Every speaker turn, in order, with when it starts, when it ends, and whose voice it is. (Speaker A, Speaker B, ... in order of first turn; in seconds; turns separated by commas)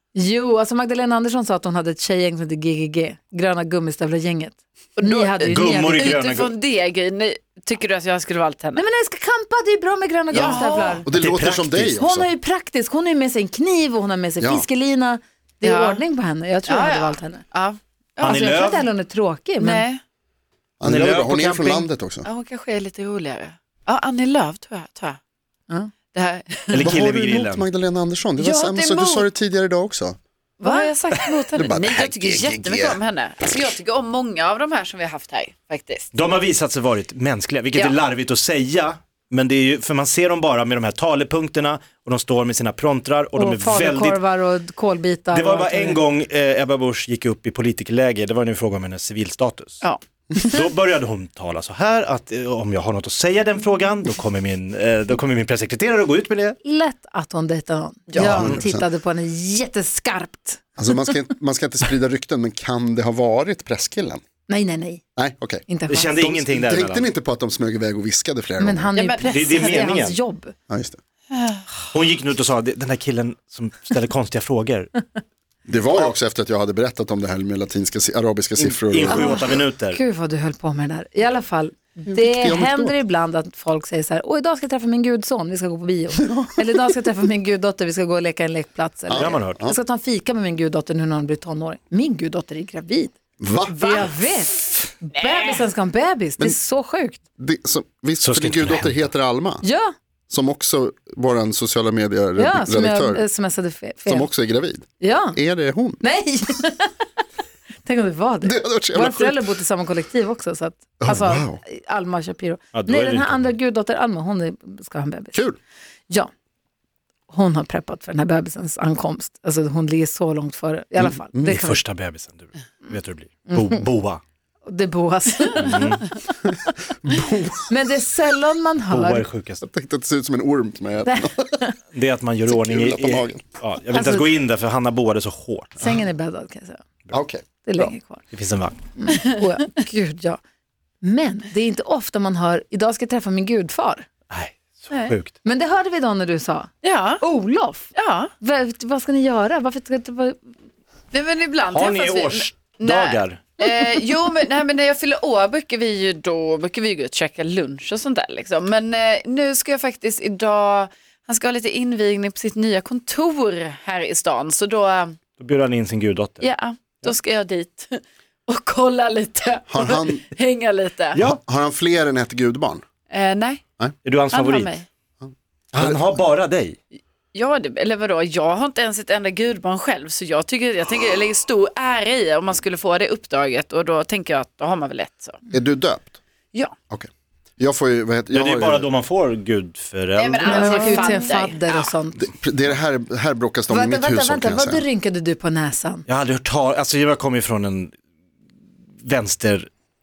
Speaker A: 0.1-6.2, Speaker B: 5.0-8.8, Speaker C: 5.1-6.5, Speaker A: 8.8-11.1, Speaker D: 10.3-12.3, Speaker B: 10.3-11.0, Speaker C: 11.1-12.0, Speaker A: 11.9-17.4, Speaker D: 14.4-14.7, Speaker B: 15.6-16.0, Speaker B: 16.7-18.8, Speaker C: 18.2-18.9, Speaker A: 18.2-19.9, Speaker B: 19.6-20.0, Speaker D: 20.8-22.2, Speaker C: 20.8-21.9, Speaker B: 22.2-25.2, Speaker B: 26.1-26.9, Speaker C: 26.7-27.7, Speaker D: 26.8-30.2, Speaker B: 28.4-29.3, Speaker B: 30.6-36.1, Speaker A: 30.6-30.9, Speaker D: 31.6-33.0, Speaker C: 36.1-44.2, Speaker A: 43.4-46.0, Speaker C: 45.3-49.8, Speaker B: 49.8-50.7, Speaker C: 50.5-56.6, Speaker A: 56.6-60.7, Speaker B: 58.1-58.4, Speaker D: 58.1-58.9, Speaker C: 58.2-58.5, Speaker D: 60.8-64.2, Speaker A: 64.5-65.0, Speaker D: 65.2-68.9, Speaker A: 65.7-66.1, Speaker C: 65.9-67.1, Speaker A: 68.6-70.5, Speaker B: 69.0-69.8, Speaker C: 69.2-70.2, Speaker D: 70.7-71.0, Speaker B: 71.3-71.7, Speaker C: 71.9-74.9, Speaker D: 75.7-79.6, Speaker C: 78.6-80.0, Speaker A: 79.1-93.1, Speaker D: 82.1-82.9, Speaker D: 86.2-86.5, Speaker D: 89.1-89.8, Speaker C: 89.1-89.6, Speaker D: 93.4-94.2, Speaker A: 93.7-97.2, Speaker B: 95.1-95.6, Speaker D: 97.4-99.6, Speaker C: 98.2-99.0, Speaker A: 99.6-99.9, Speaker D: 100.3-103.3, Speaker A: 102.4-104.3, Speaker D: 104.1-106.0, Speaker A: 105.0-105.4, Speaker A: 106.0-107.0, Speaker A: 107.8-115.4, Speaker D: 108.4-109.5, Speaker D: 111.0-111.6, Speaker C: 112.7-113.5, Speaker D: 115.3-115.6, Speaker A: 117.3-121.8, Speaker D: 121.0-121.5, Speaker C: 121.5-124.2, Speaker A: 123.5-123.8, Speaker A: 124.7-126.3, Speaker C: 125.6-126.1, Speaker D: 127.0-127.7, Speaker A: 127.7-129.2, Speaker C: 128.9-129.6, Speaker D: 129.6-131.6, Speaker A: 131.1-131.8, Speaker C: 131.9-135.9, Speaker D: 132.5-133.4, Speaker A: 133.9-134.3, Speaker A: 135.8-136.8, Speaker D: 137.1-137.4, Speaker A: 137.6-138.2, Speaker C: 138.3-138.8, Speaker A: 139.0-140.4, Speaker A: 141.0-144.1, Speaker C: 144.3-145.3, Speaker A: 145.4-150.4, Speaker B: 146.8-147.2, Speaker B: 147.9-148.3, Speaker B: 151.1-165.2, Speaker C: 151.7-153.6, Speaker C: 165.4-166.5, Speaker B: 166.4-171.2, Speaker D: 169.7-170.2, Speaker C: 171.1-171.4, Speaker D: 171.2-172.8, Speaker B: 173.1-173.6, Speaker C: 174.1-174.7, Speaker B: 174.3-174.9, Speaker D: 175.2-176.2, Speaker C: 175.7-176.8, Speaker B: 177.3-185.4, Speaker D: 185.5-186.2, Speaker D: 186.9-188.9, Speaker C: 188.3-191.1, Speaker B: 190.2-191.8, Speaker A: 190.4-192.3, Speaker D: 192.2-194.8, Speaker A: 193.7-196.1, Speaker C: 196.1-197.9, Speaker C: 199.0-199.7